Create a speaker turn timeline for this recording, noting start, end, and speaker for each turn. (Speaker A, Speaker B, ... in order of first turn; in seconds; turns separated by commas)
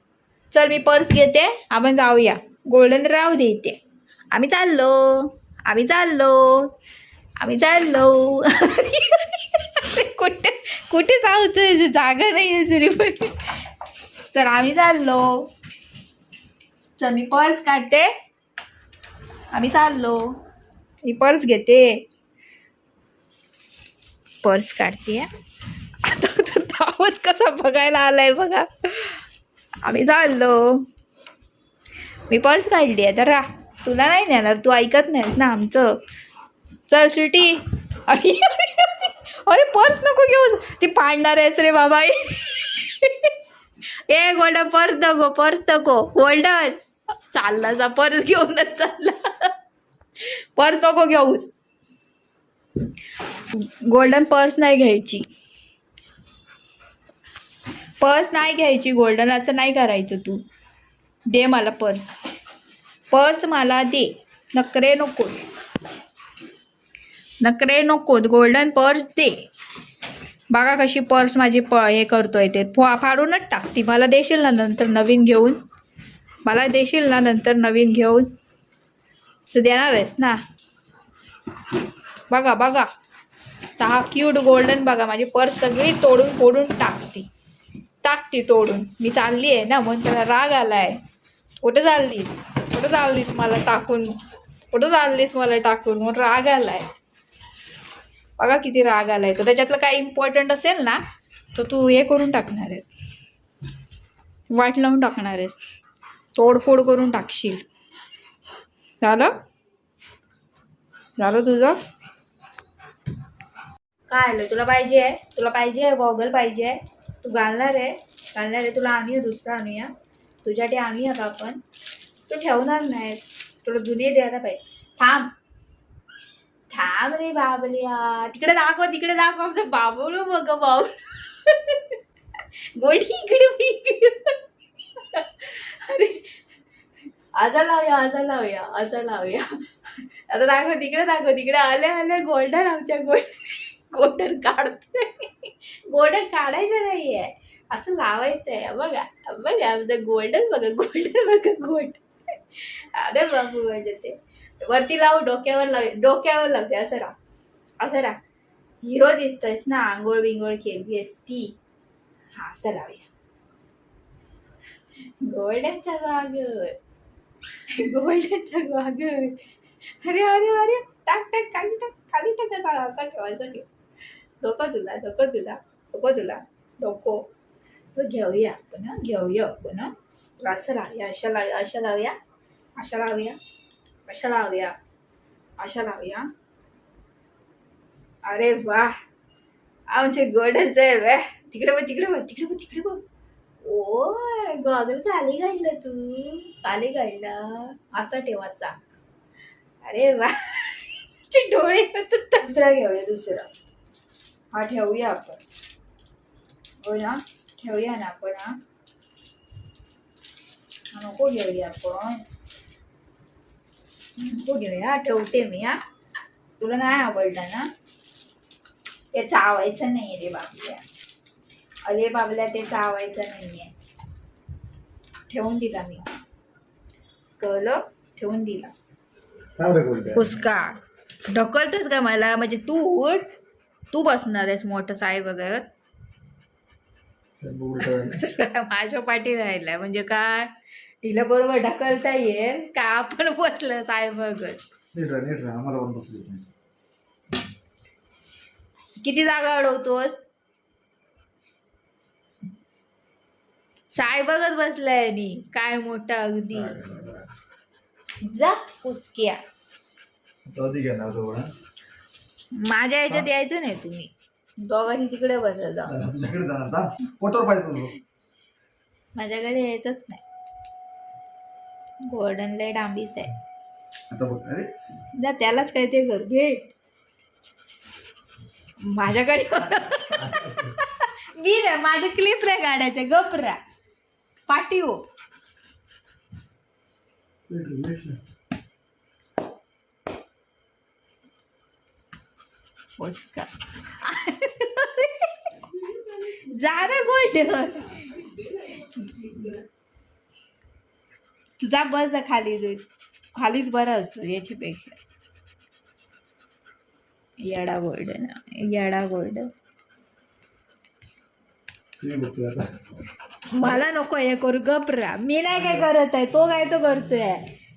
Speaker A: 0.5-3.8, Speaker A: 4.3-6.7, Speaker A: 7.4-13.5, Speaker A: 14.3-15.4, Speaker A: 17.0-18.1, Speaker A: 19.5-20.3, Speaker A: 21.0-22.0, Speaker A: 24.4-25.3, Speaker A: 26.0-29.2, Speaker A: 29.8-30.8, Speaker A: 32.3-35.9, Speaker A: 36.9-43.3, Speaker A: 44.1-46.8, Speaker A: 47.3-49.5, Speaker A: 50.2-51.5, Speaker A: 53.5-55.2, Speaker A: 58.0-60.4, Speaker A: 61.3-62.1, Speaker A: 63.1-65.5, Speaker A: 67.4-69.3, Speaker A: 70.5-75.6, Speaker A: 76.5-78.3, Speaker A: 79.5-80.4, Speaker A: 82.3-82.9, Speaker A: 83.8-87.3, Speaker A: 88.0-91.0, Speaker A: 91.6-94.2, Speaker A: 94.7-96.9, Speaker A: 98.4-101.0, Speaker A: 101.5-102.9, Speaker A: 104.5-105.6, Speaker A: 106.3-107.6, Speaker A: 109.0-109.3, Speaker A: 111.2-111.8, Speaker A: 114.1-119.9, Speaker A: 120.4-121.6, Speaker A: 122.3-125.3, Speaker A: 126.7-132.0, Speaker A: 132.8-134.3, Speaker A: 134.9-136.3, Speaker A: 137.4-139.4, Speaker A: 140.3-152.0, Speaker A: 152.6-157.1, Speaker A: 157.8-158.2, Speaker A: 158.8-161.5, Speaker A: 162.3-163.1, Speaker A: 165.2-166.7, Speaker A: 167.7-169.5, Speaker A: 170.0-173.7, Speaker A: 174.4-177.2, Speaker A: 177.9-182.1, Speaker A: 182.8-183.4, Speaker A: 184.1-184.7, Speaker A: 185.6-186.2, Speaker A: 188.2-188.9, Speaker A: 189.9-193.0, Speaker A: 193.6-198.7, Speaker A: 199.8-203.5, Speaker A: 204.5-205.4, Speaker A: 206.8-208.6, Speaker A: 210.9-212.2, Speaker A: 214.2-215.8, Speaker A: 216.6-217.7, Speaker A: 219.1-220.8, Speaker A: 221.8-223.7, Speaker A: 225.3-226.1, Speaker A: 227.4-228.7, Speaker B: 229.6-230.3, Speaker A: 230.1-230.8, Speaker A: 231.3-233.3, Speaker A: 233.9-235.7, Speaker B: 237.4-238.2, Speaker A: 237.8-240.5, Speaker A: 241.0-244.6, Speaker B: 244.9-246.5, Speaker A: 249.0-250.2, Speaker A: 253.9-256.8, Speaker B: 256.5-257.3, Speaker A: 258.2-259.4, Speaker B: 260.4-261.5, Speaker A: 262.5-266.0, Speaker B: 265.9-267.9, Speaker A: 269.1-270.2, Speaker A: 272.1-273.3, Speaker B: 274.1-274.7, Speaker A: 275.2-276.7, Speaker A: 278.8-283.6, Speaker B: 280.1-280.7, Speaker A: 284.5-285.0, Speaker B: 287.5-288.2, Speaker A: 293.0-299.6, Speaker A: 301.6-302.8, Speaker A: 303.3-305.0, Speaker A: 307.4-309.5, Speaker B: 312.0-312.6, Speaker A: 313.5-317.4, Speaker B: 315.5-315.9